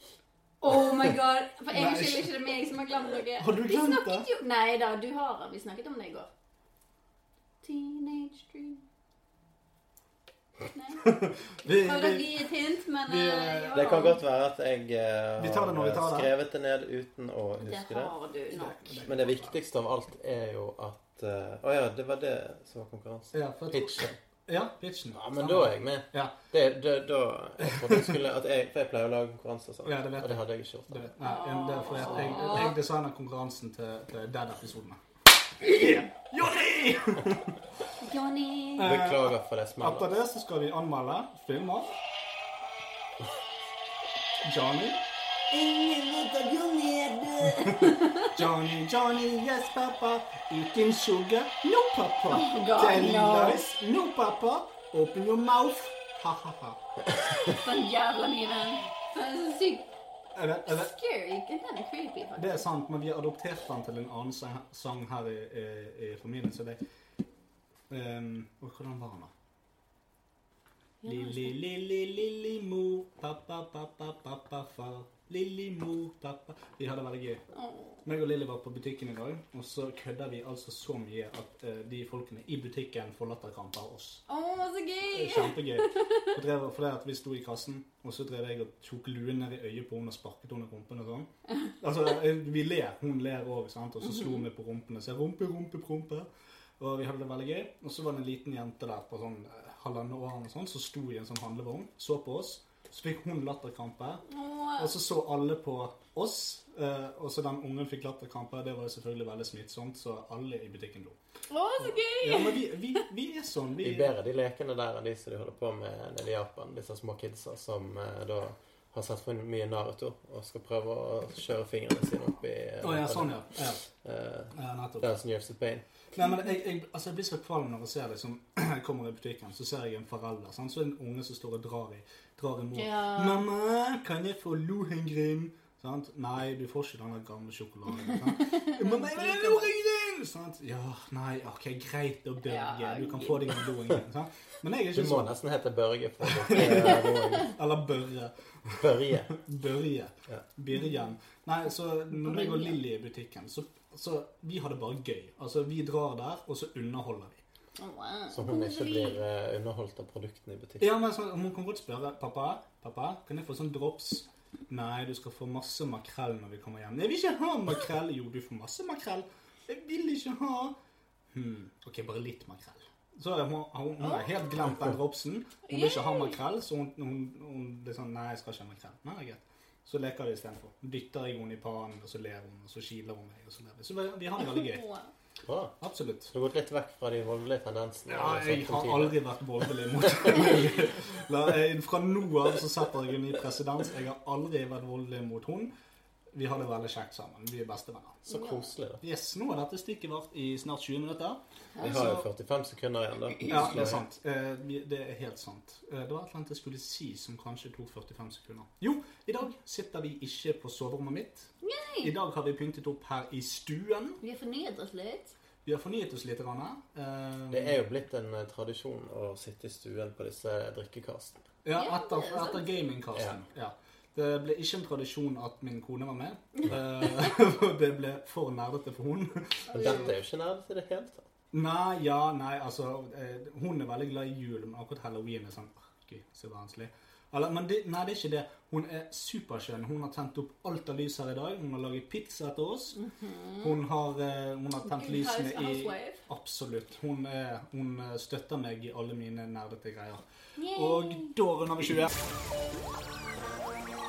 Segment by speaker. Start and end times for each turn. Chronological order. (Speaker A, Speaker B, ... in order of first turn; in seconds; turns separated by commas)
Speaker A: 0.6-6.3, Speaker B: 1.7-2.3, Speaker B: 3.4-4.3, Speaker A: 7.6-8.8, Speaker A: 10.7-11.2, Speaker B: 11.0-12.3, Speaker A: 11.7-14.2, Speaker B: 13.1-13.9, Speaker C: 13.7-18.1, Speaker B: 15.4-16.3, Speaker A: 17.6-19.0, Speaker B: 18.5-19.6, Speaker C: 19.0-24.2, Speaker B: 23.3-26.3, Speaker C: 25.1-31.1, Speaker B: 27.6-28.2, Speaker B: 29.8-35.0, Speaker A: 31.2-32.8, Speaker C: 32.0-32.5, Speaker B: 35.6-37.5, Speaker A: 38.0-39.0, Speaker B: 38.8-41.9, Speaker C: 38.8-40.1, Speaker B: 44.4-45.0, Speaker A: 46.2-48.2, Speaker B: 47.6-56.8, Speaker A: 52.3-53.6, Speaker A: 57.5-59.9, Speaker B: 60.3-60.9, Speaker A: 60.6-62.6, Speaker B: 62.4-66.8, Speaker B: 67.9-69.3, Speaker A: 71.0-71.6, Speaker B: 71.0-77.4, Speaker A: 77.5-78.0, Speaker B: 78.0-84.2, Speaker A: 84.3-86.2, Speaker B: 85.1-91.3, Speaker B: 91.8-96.3, Speaker A: 94.0-94.4, Speaker B: 96.8-104.2, Speaker A: 104.3-104.9, Speaker B: 104.8-111.2, Speaker A: 111.5-112.6, Speaker B: 111.8-114.1, Speaker C: 113.8-123.4, Speaker B: 122.8-123.8, Speaker C: 124.0-125.8, Speaker B: 124.5-125.1, Speaker B: 126.2-145.3, Speaker A: 132.7-133.5, Speaker A: 138.4-139.7, Speaker A: 142.4-143.7, Speaker C: 144.9-147.5, Speaker B: 146.2-148.7, Speaker A: 146.8-147.0, Speaker C: 148.7-149.4, Speaker B: 149.3-157.4, Speaker A: 152.1-152.8, Speaker A: 157.8-159.2, Speaker C: 158.3-160.9, Speaker B: 160.8-170.7, Speaker B: 171.3-184.8, Speaker A: 175.7-176.3, Speaker A: 184.4-185.1, Speaker C: 185.4-189.2, Speaker B: 185.8-186.3, Speaker B: 188.1-195.7, Speaker B: 196.3-198.2, Speaker C: 198.2-199.0, Speaker A: 198.3-198.7, Speaker B: 199.0-202.2, Speaker C: 201.8-204.0, Speaker B: 203.5-211.5, Speaker A: 211.6-212.1, Speaker B: 212.0-214.2, Speaker A: 214.2-215.3, Speaker B: 215.6-217.8, Speaker C: 217.5-221.4, Speaker B: 221.6-229.9, Speaker A: 221.7-222.8, Speaker A: 229.7-230.1, Speaker C: 229.7-231.3, Speaker B: 231.5-243.0, Speaker A: 243.0-243.7, Speaker B: 243.6-250.2, Speaker A: 244.8-246.2, Speaker A: 250.6-251.3, Speaker B: 250.7-252.1